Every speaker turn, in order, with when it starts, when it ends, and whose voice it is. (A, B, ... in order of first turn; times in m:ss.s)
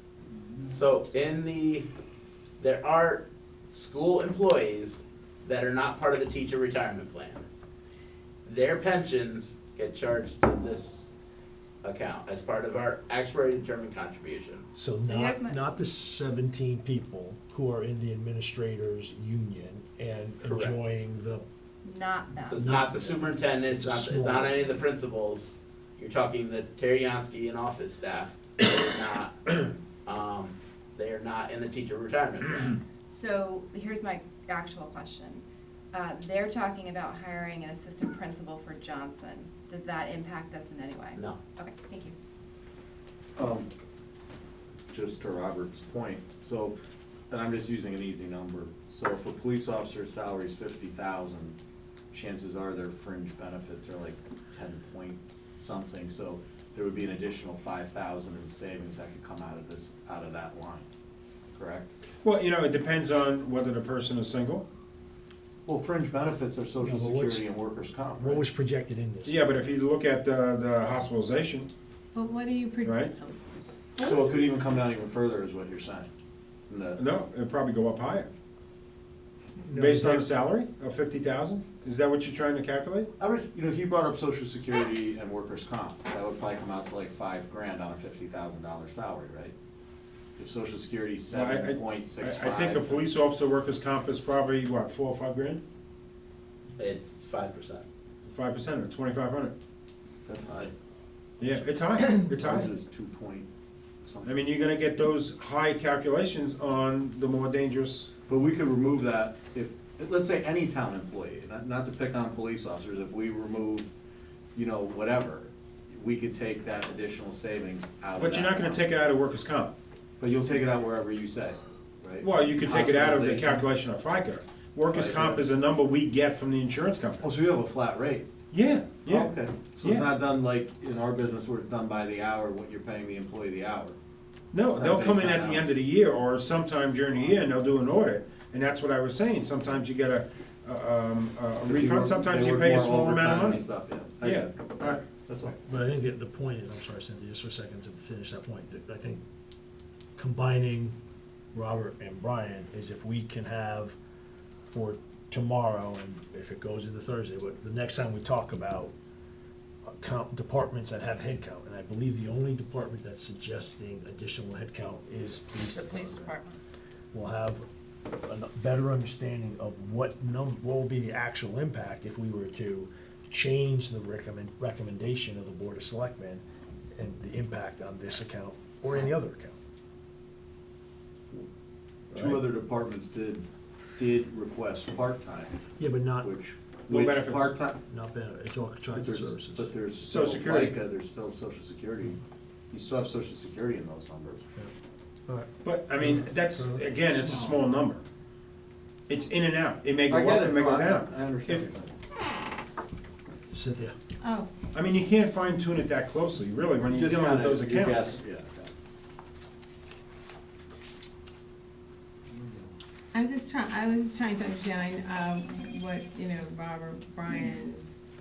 0:00.6-0:01.9 A
0:02.6-0:07.4 A
0:08.4-0:11.1 A
0:11.8-0:14.6 A
0:14.8-0:21.4 B
0:15.0-0:15.7 C
0:20.4-0:20.7 A
0:21.8-0:22.7 C
0:22.5-0:32.8 A
0:22.6-0:24.6 B
0:33.1-0:42.1 C
0:43.4-0:43.7 D
0:44.9-0:46.7 D
0:47.3-0:51.5 D
0:52.1-1:00.8 D
1:01.5-1:01.9 D
1:02.2-1:04.6 E
1:05.6-1:08.4 D
1:06.8-1:07.5 B
1:08.2-1:09.4 B
1:09.2-1:11.7 E
1:12.1-1:13.4 F
1:12.8-1:13.1 E
1:14.0-1:16.1 D
1:16.7-1:17.0 D
1:17.0-1:18.3 E
1:19.6-1:20.3 B
1:19.7-1:23.1 E
1:23.2-1:29.5 D
1:30.4-1:33.0 D
1:31.3-1:35.6 E
1:36.8-1:37.8 A
1:38.2-1:39.5 E
1:40.2-1:40.7 D
1:41.4-1:42.7 E
1:42.3-1:43.5 D
1:44.0-1:44.3 D
1:44.2-1:48.1 E
1:48.3-1:53.9 D
1:54.5-1:58.8 D
1:58.2-1:59.7 E
2:00.2-2:03.6 D
2:02.2-2:07.2 E
2:04.9-2:05.4 D
2:07.2-2:08.3 D
2:08.5-2:10.1 E
2:09.0-2:14.0 D
2:14.5-2:23.6 E
2:14.7-2:15.7 D
2:21.6-2:25.5 D
2:24.2-2:24.5 E
2:25.4-2:29.2 B
2:30.2-2:31.0 B
2:31.5-2:34.0 B
2:34.6-2:38.9 B
2:39.9-2:46.4 B
2:47.1-2:47.6 B
2:48.2-2:56.4 B
2:57.0-2:59.6 B
3:02.1-3:02.5 B
3:02.1-3:03.4 D
3:04.0-3:05.6 D
3:05.8-3:06.3 B
3:06.2-3:07.8 D
3:06.9-3:07.5 E
3:07.8-3:09.7 B
3:08.9-3:12.2 D
3:10.0-3:10.8 E
3:12.7-3:14.4 D
3:15.3-3:17.6 B
3:15.6-3:18.0 E
3:19.1-3:21.7 E
3:20.1-3:21.9 D
3:23.5-3:23.9 B
3:24.2-3:24.5 F
3:24.7-3:28.2 E
3:26.9-3:28.7 D
3:32.4-3:32.7 D
3:33.1-3:37.8 F